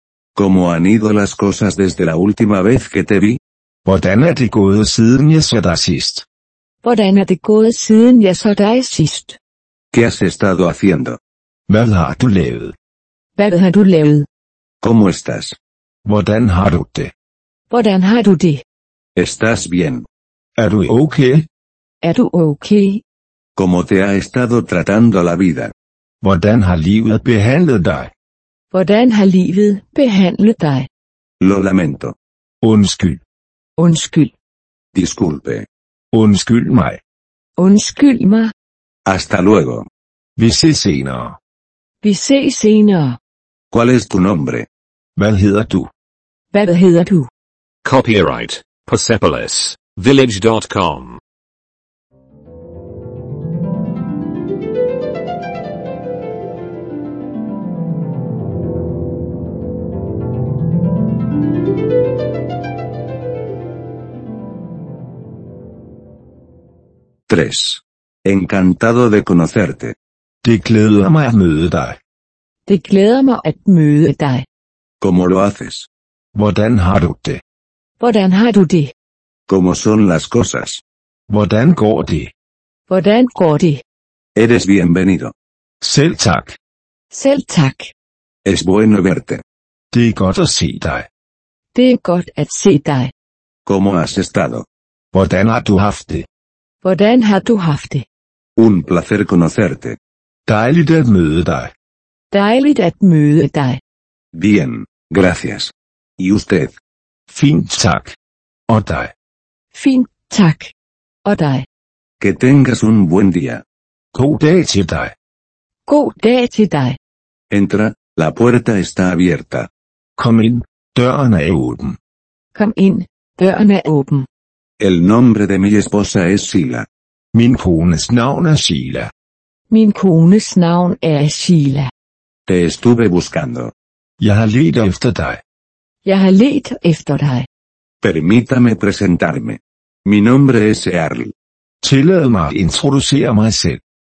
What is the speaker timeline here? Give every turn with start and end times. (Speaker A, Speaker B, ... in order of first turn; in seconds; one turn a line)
Speaker A: 0.3-3.4
Speaker B: 3.8-6.2
Speaker C: 6.8-9.4
Speaker A: 9.9-11.2
Speaker B: 11.7-12.7
Speaker C: 13.4-14.3
Speaker A: 14.8-15.6
Speaker B: 16.0-17.1
Speaker C: 17.7-18.6
Speaker A: 19.1-20.1
Speaker B: 20.6-21.5
Speaker C: 22.0-23.0
Speaker A: 23.6-25.7
Speaker B: 26.2-28.1
Speaker C: 28.7-30.9
Speaker A: 31.4-32.1
Speaker B: 32.6-33.2
Speaker C: 33.8-34.3
Speaker A: 34.9-35.6
Speaker B: 36.1-37.0
Speaker C: 37.6-38.5
Speaker A: 39.0-39.9
Speaker B: 40.4-41.4
Speaker C: 42.0-43.2
Speaker A: 43.7-44.7
Speaker B: 45.2-45.9
Speaker C: 46.5-47.3
Speaker D: 47.8-51.2
Speaker A: 67.3-69.9
Speaker B: 70.4-72.0
Speaker C: 72.7-74.5
Speaker A: 75.0-75.9
Speaker B: 76.3-77.4
Speaker C: 78.0-78.9
Speaker A: 79.5-80.8
Speaker B: 81.3-82.3
Speaker C: 82.9-83.8
Speaker A: 84.3-85.3
Speaker B: 85.8-86.6
Speaker C: 87.1-87.9
Speaker A: 88.4-89.4
Speaker B: 89.9-91.1
Speaker C: 91.7-93.1
Speaker A: 93.7-94.7
Speaker B: 95.1-96.3
Speaker C: 96.8-98.0
Speaker A: 98.6-100.0
Speaker B: 100.5-101.7
Speaker C: 102.3-103.8
Speaker A: 104.3-106.8
Speaker B: 107.3-108.2
Speaker B: 108.7-109.1
Speaker C: 109.7-110.7
Speaker C: 111.2-111.7
Speaker A: 112.2-113.6
Speaker B: 114.1-115.1
Speaker C: 115.9-117.0
Speaker A: 117.5-119.7
Speaker B: 120.2-122.0
Speaker C: 122.5-124.3
Speaker A: 124.8-126.9
Speaker B: 127.3-129.1
Speaker C: 129.7-131.9
Speaker A: 132.5-133.7
Speaker B: 134.2-135.4
Speaker C: 136.0-137.5
Speaker A: 138.0-141.3
Speaker B: 141.8-143.8